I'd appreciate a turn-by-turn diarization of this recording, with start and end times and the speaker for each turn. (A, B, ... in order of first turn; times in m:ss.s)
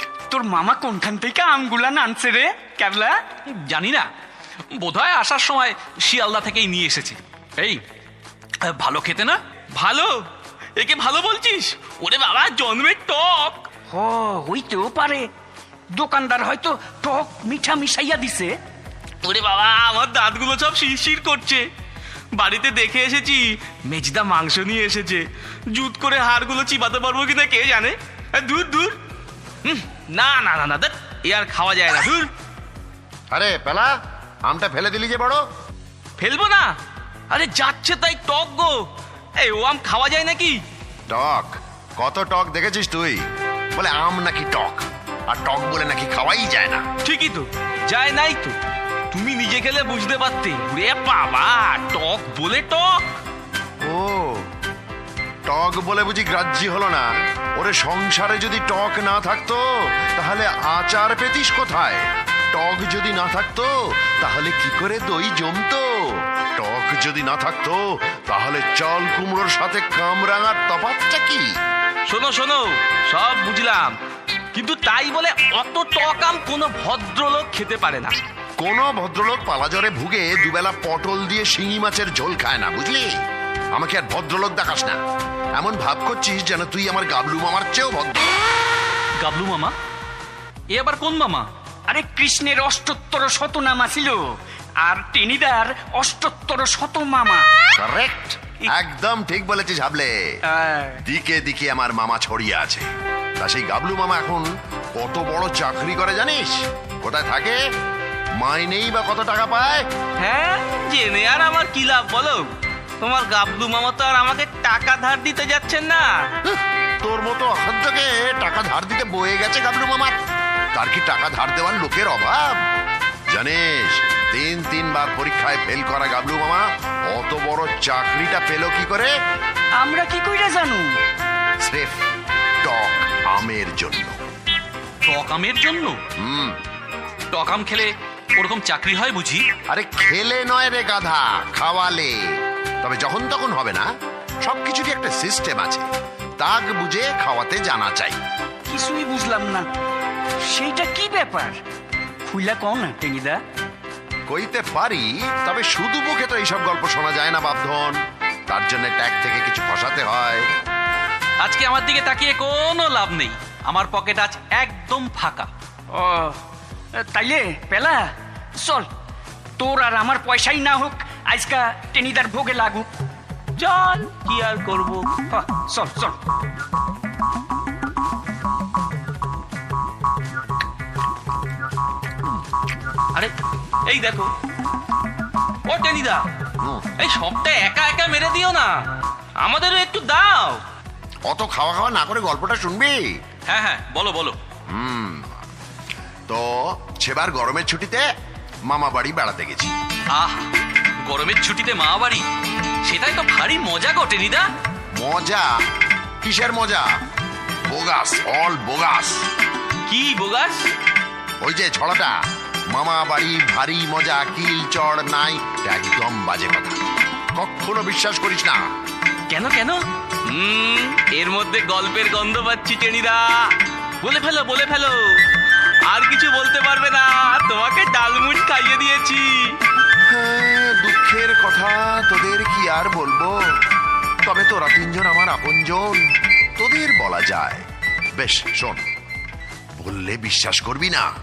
0:00.3-0:03.2 A
0:03.5-0:04.1 B
0:04.7-0:07.8 B
0:08.6-0:09.4 B
0:09.7-0:10.2 C
0:10.8-0:13.6 C
0:13.9-0:15.3 A
0:15.9-0:18.5 A
0:19.2-0:21.7 C
0:22.3-0:29.0 C
0:29.6-0:32.3 C
0:33.3-0:33.9 D
0:34.4-0:35.4 D
0:36.2-0:36.7 C
0:37.3-0:38.8 C
0:39.4-0:40.6 C
0:41.1-0:43.2 D
0:43.7-0:46.8 D
0:47.0-0:48.6 C
0:49.1-0:53.0 C
0:53.8-0:54.4 D
0:55.5-1:05.9 D
1:06.6-1:11.5 D
1:12.0-1:14.0 C
1:14.5-1:18.2 C
1:18.6-1:23.1 D
1:23.7-1:25.0 D
1:25.6-1:28.3 D
1:29.2-1:29.7 B
1:30.7-1:31.5 B
1:31.9-1:34.2 A
1:34.8-1:37.4 A
1:37.8-1:40.1 D
1:40.5-1:41.0 A
1:41.0-1:42.9 D
1:43.4-1:47.6 D
1:48.4-1:49.8 D
1:50.2-1:52.5 C
1:53.0-1:56.3 C
1:56.5-2:00.2 D
2:00.7-2:02.6 D
2:03.3-2:09.1 D
2:09.8-2:10.9 A
2:11.6-2:12.0 D
2:12.6-2:14.2 D
2:15.0-2:16.0 B
2:16.2-2:16.6 D
2:17.3-2:19.4 B
2:19.7-2:22.1 D
2:22.8-2:23.8 D
2:24.4-2:25.8 D
2:26.4-2:28.2 D
2:28.7-2:29.7 A
2:30.4-2:31.6 A
2:32.2-2:33.4 A
2:34.3-2:38.0 D
2:38.5-2:40.5 D
2:41.4-2:45.5 B
2:45.9-2:46.4 A
2:47.0-2:48.0 A
2:48.6-2:48.9 A
2:49.6-2:52.9 A
2:53.6-2:55.1 C
2:55.3-2:56.2 A
3:03.8-3:04.3 C
3:05.6-3:06.2 C
3:07.0-3:10.6 C
3:11.3-3:13.0 D
3:13.5-3:14.4 B
3:14.7-3:15.3 D
3:16.3-3:18.0 D
3:18.7-3:19.7 D
3:20.1-3:20.5 B
3:21.1-3:22.2 B
3:22.8-3:24.4 B
3:25.0-3:25.5 D
3:26.2-3:26.8 D
3:27.7-3:29.2 D
3:29.9-3:30.7 C
3:31.4-3:32.1 D
3:32.7-3:36.8 D
3:37.4-3:38.6 D
3:39.3-3:43.5 C
3:44.0-3:44.9 C
3:45.9-3:49.5 C
3:50.1-3:53.3 D
3:54.2-3:56.0 D
3:56.6-3:57.6 D
3:58.2-3:58.8 D
3:59.8-4:01.0 D